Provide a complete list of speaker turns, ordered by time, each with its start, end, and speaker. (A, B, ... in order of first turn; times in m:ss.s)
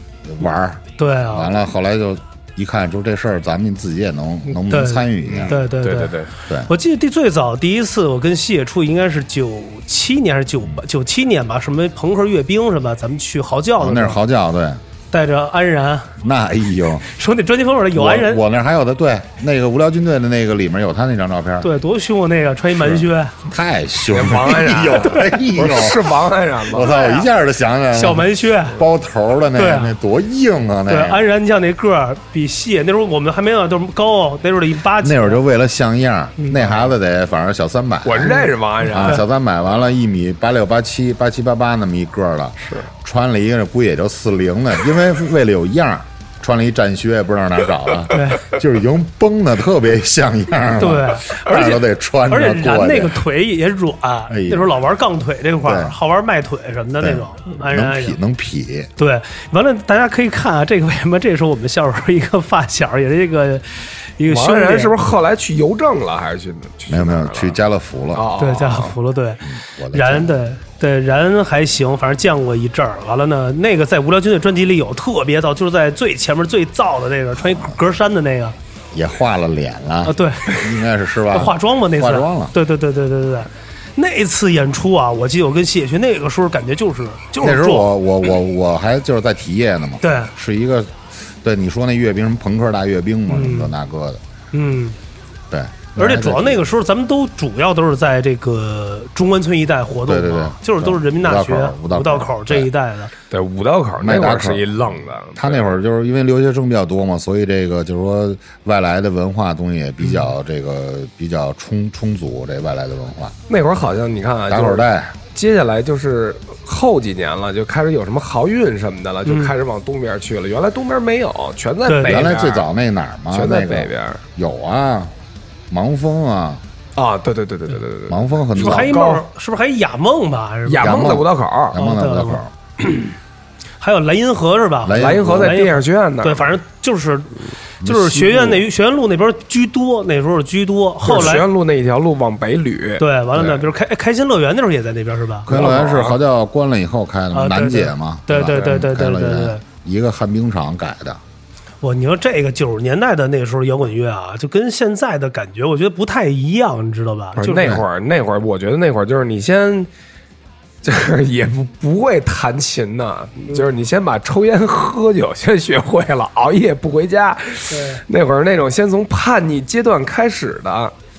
0:00.2-0:05.6 A
0:01.0-0:01.6 B
0:04.5-0:14.2 B
0:05.3-0:06.3 C
0:13.8-0:14.8 A
0:15.1-0:16.2 B
0:16.2-0:17.1 A
0:17.1-0:18.4 B
0:17.9-0:21.7 A
0:21.6-0:23.3 B
0:22.8-0:26.2 A
0:24.1-0:26.9 C
0:25.0-0:25.3 B
0:26.7-0:31.2 A
0:26.7-0:27.3 B
0:27.9-0:28.8 B
0:29.5-0:30.0 B
0:30.9-0:35.4 B
0:35.0-0:53.2 A
0:36.4-0:36.8 B
0:38.0-0:39.2 C
0:38.2-0:39.2 B
0:48.1-0:48.4 B
0:50.8-0:58.2 B
0:54.3-0:54.7 A
0:55.6-0:55.9 A
0:57.0-0:58.9 A
0:59.0-1:04.9 B
1:04.3-1:07.6 C
1:06.9-1:08.3 A
1:08.1-1:08.9 C
1:08.4-1:18.6 B
1:09.4-1:10.3 A
1:18.9-1:22.5 A
1:20.0-1:20.6 B
1:21.3-1:27.9 B
1:27.4-1:34.2 A
1:30.0-1:30.3 B
1:33.3-1:33.7 B
1:34.5-1:35.0 B
1:35.5-1:36.6 A
1:36.0-1:43.1 B
1:40.0-1:42.7 A
1:43.3-1:45.8 C
1:44.0-1:44.8 A
1:45.3-1:53.4 A
1:50.0-1:50.3 B
1:53.5-2:02.7 C
1:54.5-1:55.2 A
1:59.2-1:59.5 B
2:01.9-2:02.3 B
2:02.0-2:05.1 A
2:03.3-2:04.2 C
2:05.7-2:06.6 A
2:07.0-2:09.2 C
2:08.1-2:09.0 A
2:08.5-2:11.1 B
2:10.7-2:11.8 C
2:10.8-2:12.5 A
2:11.7-2:13.1 B
2:13.8-2:21.5 B
2:14.8-2:15.6 A
2:14.9-2:16.6 C
2:17.8-2:18.5 A
2:21.0-2:23.0 C
2:23.0-2:25.6 B
2:25.5-2:31.2 A
2:25.5-2:26.2 C
2:27.3-2:29.6 B
2:31.8-2:37.8 B
2:37.4-2:39.9 C
2:40.8-2:50.9 C
2:47.7-2:48.0 B